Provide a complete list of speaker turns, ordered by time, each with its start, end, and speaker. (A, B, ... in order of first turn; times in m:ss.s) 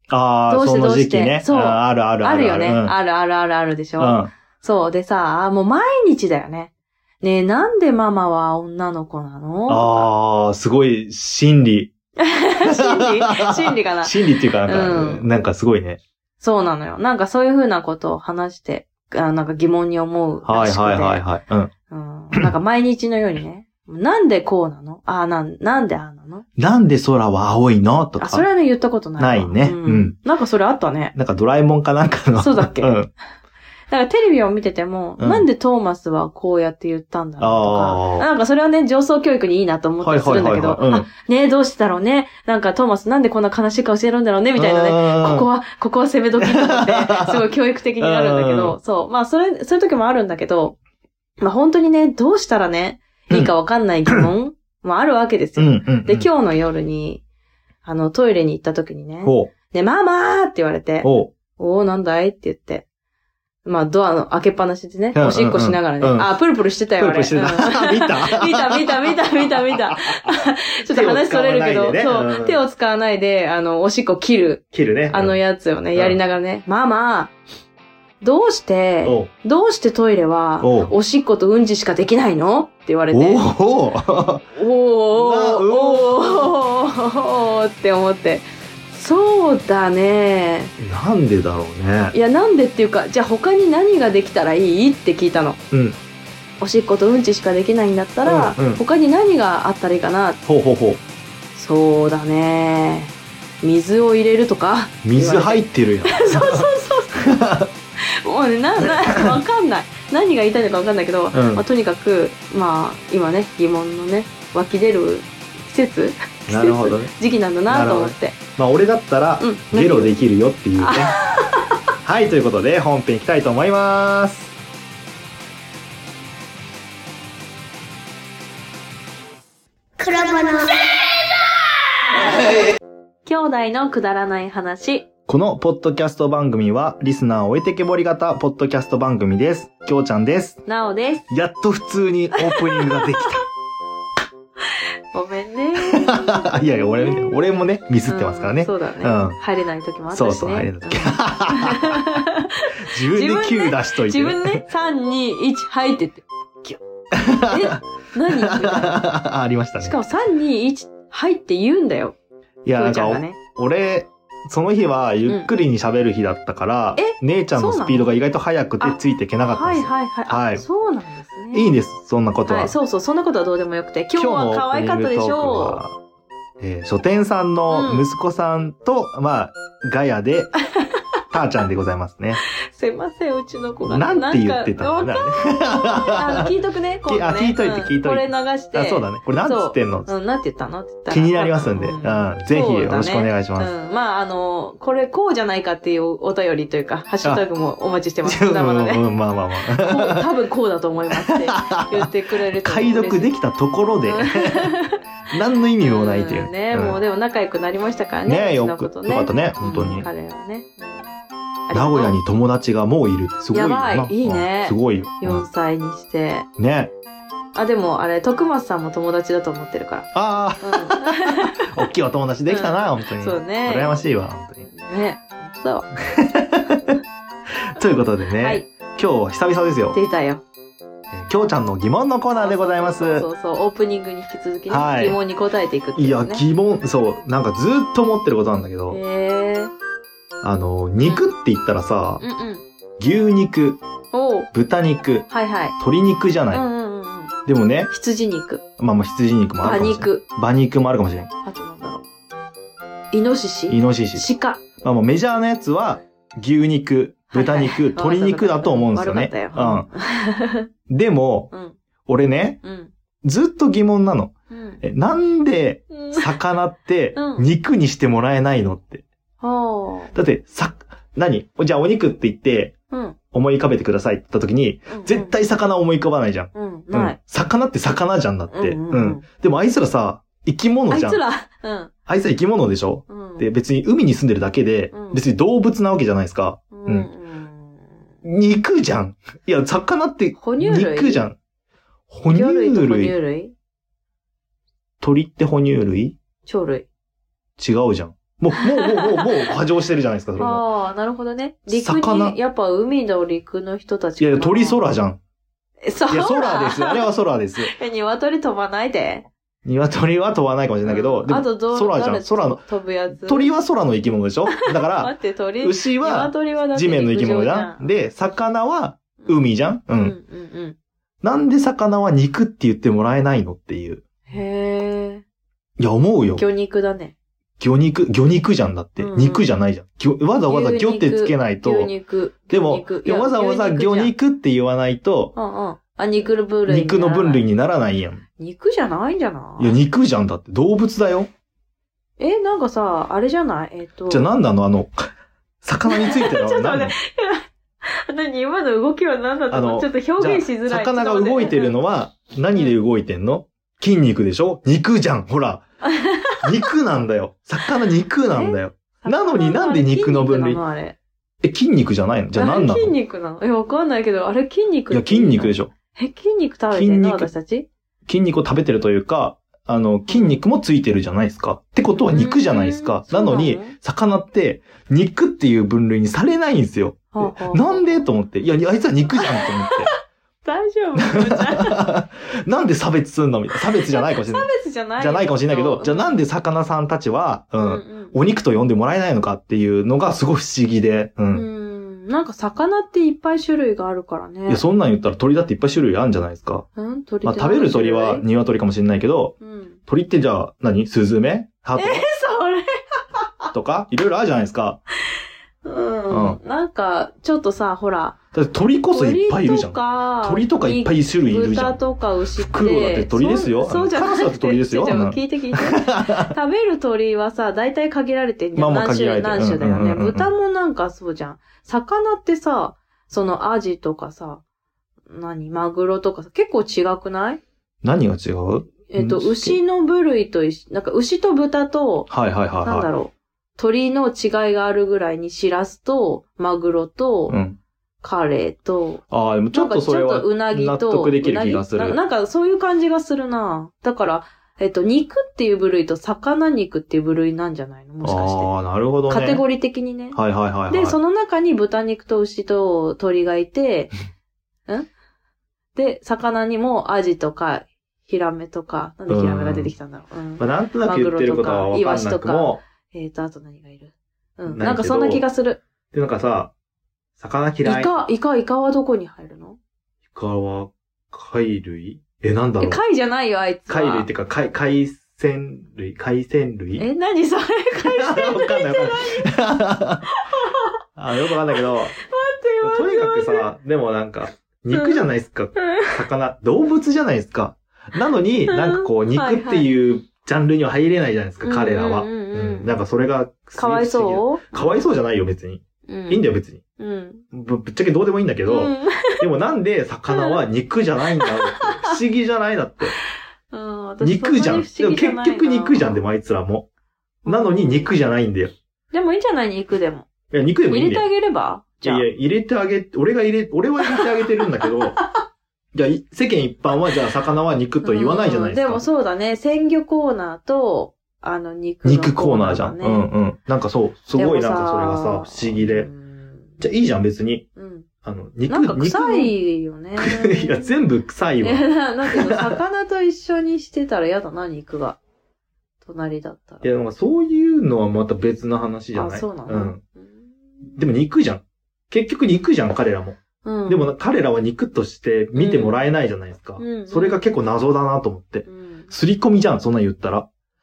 0:00.1-0:02.9 A
0:00.5-0:10.1 B
0:04.0-0:04.3 A
0:09.7-0:11.9 A
0:12.2-0:15.3 B
0:12.6-0:16.0 A
0:16.4-0:21.2 B
0:20.4-0:21.7 A
0:21.9-0:26.4 B
0:26.6-0:28.5 A
0:28.2-0:31.1 B
0:29.2-0:30.2 A
0:31.1-0:33.1 A
0:32.4-0:33.0 B
0:33.9-0:50.8 B
0:35.2-0:35.5 A
0:37.4-0:38.3 A
0:40.0-0:41.1 A
0:44.6-0:45.5 A
0:46.4-0:47.4 A
0:48.0-0:48.8 A
0:51.4-0:57.2 B
0:55.6-0:56.3 A
0:57.8-1:02.8 B
0:59.2-0:59.5 A
1:01.0-1:01.3 A
1:03.6-1:17.3 B
1:05.1-1:06.4 A
1:07.0-1:09.1 A
1:09.7-1:10.2 A
1:10.9-1:12.6 A
1:14.7-1:15.4 A
1:18.2-1:23.5 B
1:19.0-1:19.3 A
1:20.6-1:20.9 A
1:23.1-1:24.4 A
1:24.5-1:30.7 B
1:25.1-1:26.5 A
1:30.8-1:32.1 A
1:32.1-1:35.6 B
1:35.7-1:36.0 A
1:36.6-1:40.4 B
1:38.2-1:38.8 A
1:40.4-1:41.0 A
1:41.5-1:47.2 B
1:45.0-1:46.7 A
1:47.2-1:47.7 A
1:48.2-1:58.4 B
1:49.1-1:49.4 A
1:51.3-1:51.6 A
1:56.5-1:57.1 A
1:57.7-2:01.2 A
1:59.4-2:00.1 B
2:00.8-2:01.8 B
2:02.0-2:04.5 A
2:10.0-2:10.7 B
2:13.2-2:15.1 B
2:15.3-2:20.6 A
2:20.6-2:21.3 B
2:21.3-2:23.4 A
2:22.4-2:23.1 B
2:25.1-2:27.3 B
2:26.0-2:29.4 A
2:28.1-2:36.8 B
2:30.1-2:32.2 A
2:32.8-2:34.6 A
2:37.1-2:37.8 A
2:37.3-2:39.1 B
2:38.3-2:40.0 A
2:39.8-2:42.2 B
2:42.6-2:50.6 A
2:42.7-2:43.4 B
2:45.2-2:45.5 B
2:47.0-2:48.1 B
2:48.8-2:51.7 B
2:51.5-2:52.7 A
2:52.4-2:55.8 B
2:54.2-2:56.0 A
2:56.6-3:00.5 A
2:57.7-2:58.1 B
3:01.3-3:02.4 A
3:02.7-3:19.1 B
3:03.8-3:06.5 A
3:07.1-3:10.1 A
3:11.1-3:13.7 A
3:18.2-3:20.2 A
3:19.6-3:23.3 B
3:21.2-3:24.7 A
3:24.0-3:25.0 B
3:25.3-3:27.0 A
3:25.8-3:31.1 B
3:28.3-3:30.1 A
3:31.7-3:32.2 B
3:31.7-3:35.4 A
3:33.5-3:36.5 B
3:36.6-3:36.9 A
3:37.5-3:40.1 B
3:40.1-3:44.6 A
3:40.6-3:41.7 B
3:42.5-3:44.0 B
3:44.6-3:45.9 B
3:46.1-3:47.0 A
3:47.7-3:50.0 A
3:48.4-3:48.7 B
3:49.9-3:50.4 B
3:51.1-3:53.3 A
3:52.3-3:56.4 B
3:54.7-3:55.2 A
3:56.0-3:59.0 A
3:58.9-3:59.7 B
4:00.4-4:02.2 A
4:01.0-4:01.3 B
4:02.2-4:02.6 B
4:03.0-4:03.8 A
4:04.1-4:04.5 B
4:04.5-4:06.6 A
4:05.3-4:05.8 B
4:06.5-4:07.3 B
4:07.4-4:07.9 A
4:07.9-4:08.6 B
4:08.8-4:11.3 A
4:09.6-4:10.2 B
4:11.4-4:12.0 B
4:13.1-4:14.6 B
4:13.7-4:14.3 A
4:14.8-4:19.9 A
4:17.3-4:20.7 B
4:20.9-4:21.5 A
4:21.5-4:21.8 B
4:22.1-4:22.6 A
4:22.6-4:22.9 B
4:23.2-4:29.0 A
4:24.5-4:24.8 B
4:25.9-4:26.3 B
4:27.1-4:27.5 B
4:29.4-4:30.1 B
4:30.1-4:32.7 A
4:32.9-4:33.2 B
4:33.3-4:41.2 A
4:34.9-4:35.3 B
4:36.5-4:37.2 B
4:38.5-4:39.2 B
4:40.9-4:41.9 B
4:42.1-4:47.1 A
4:43.1-4:43.5 B
4:44.9-4:45.2 B
4:46.7-4:47.9 B
4:48.2-4:51.4 A
4:50.4-4:51.2 B
4:52.1-4:53.1 A
4:52.3-4:53.5 B
4:55.0-4:56.2 A
4:56.4-4:56.9 B
4:57.6-5:00.6 A
4:58.8-4:59.3 B
5:00.4-5:04.8 B
5:01.7-5:02.4 A
5:04.2-5:05.2 A
5:05.8-5:09.3 B
5:06.1-5:07.7 A
5:09.6-5:12.6 A
5:10.8-5:13.5 B
5:13.2-5:20.2 A
5:14.5-5:17.9 B
5:19.2-5:19.4 B
5:20.0-5:20.8 B
5:21.2-5:24.0 A
5:24.3-5:25.2 B
5:25.8-5:26.4 A
5:26.4-5:27.1 B
5:27.6-5:31.9 A
5:29.0-5:29.4 B
5:30.4-5:34.1 B
5:32.5-5:35.3 A
5:35.3-5:37.4 B
5:36.7-5:38.2 A
5:38.4-5:39.8 B
5:39.6-5:41.3 A
5:42.2-5:44.3 B
5:44.1-5:45.1 A
5:45.6-5:46.9 A
5:45.8-5:51.8 B
5:49.5-5:55.6 A
5:55.9-5:56.4 B
5:56.4-6:00.6 A
5:58.3-6:01.0 B
6:01.4-6:02.9 A
6:02.3-6:07.7 B
6:04.9-6:05.7 A
6:06.7-6:07.3 A
6:08.0-6:19.9 A
6:10.1-6:10.4 B
6:12.0-6:13.7 B
6:17.1-6:18.1 B
6:19.2-6:19.8 B
6:20.4-6:21.8 B
6:21.0-6:31.4 A
6:23.8-6:26.2 B
6:27.6-6:28.1 B
6:31.3-6:34.6 B
6:34.5-6:36.6 A
6:36.8-6:38.2 B
6:37.2-6:39.4 A
6:39.4-6:39.8 B
6:39.9-6:42.0 A
6:41.8-6:43.2 B
6:43.5-6:44.8 A
6:45.6-6:48.2 B
6:46.1-6:46.4 A
6:48.3-6:51.8 A
6:48.9-7:04.4 B
6:52.4-6:56.3 A
6:58.6-7:00.3 A
7:05.1-7:07.4 B
7:07.8-7:09.6 A
7:08.9-7:17.4 B
7:12.1-7:12.9 A
7:17.3-7:17.6 A
7:18.0-7:19.0 B
7:19.1-7:22.0 A
7:19.5-7:28.5 B
7:28.0-7:29.4 A
7:29.1-7:33.9 B
7:30.1-7:31.0 A
7:35.7-7:45.6 B
7:39.1-7:39.7 A
7:40.4-7:42.6 A
7:44.5-7:45.2 A
7:45.9-7:46.5 A
7:47.2-7:48.0 A
7:47.6-7:49.6 B
7:50.1-7:52.8 A
7:52.6-7:54.1 B
7:53.7-7:56.8 A
7:56.8-7:59.3 B
7:57.8-8:00.1 A
8:00.1-8:00.6 B
8:01.0-8:01.9 A
8:01.3-8:03.4 B
8:02.6-8:16.6 A
8:04.7-8:05.0 B
8:05.6-8:05.9 B
8:08.5-8:09.7 B
8:11.4-8:12.7 B
8:13.6-8:14.8 B
8:15.9-8:16.2 B
8:16.8-8:17.2 B
8:17.3-8:22.9 A
8:18.5-8:19.2 B
8:20.1-8:20.4 B
8:21.2-8:21.9 B
8:23.5-8:26.0 B
8:24.0-8:26.7 A
8:27.2-8:27.9 B
8:27.2-8:28.5 A
8:28.9-8:30.1 B
8:30.3-8:31.0 A
8:30.7-8:32.0 B
8:31.8-8:35.0 A
8:35.7-8:38.8 A
8:37.8-8:43.1 B
8:41.8-8:45.9 A
8:44.1-8:46.6 B
8:46.6-8:47.4 A
8:47.6-8:47.9 B
8:48.0-8:49.3 A
8:48.5-8:50.8 B
8:50.0-8:52.6 A
8:51.4-8:55.0 B
8:55.8-8:56.7 B
8:56.6-8:59.8 A
8:58.9-9:00.3 B
9:00.8-9:10.3 A
9:03.4-9:03.9 B
9:05.4-9:05.8 B
9:06.6-9:07.2 B
9:08.4-9:08.9 B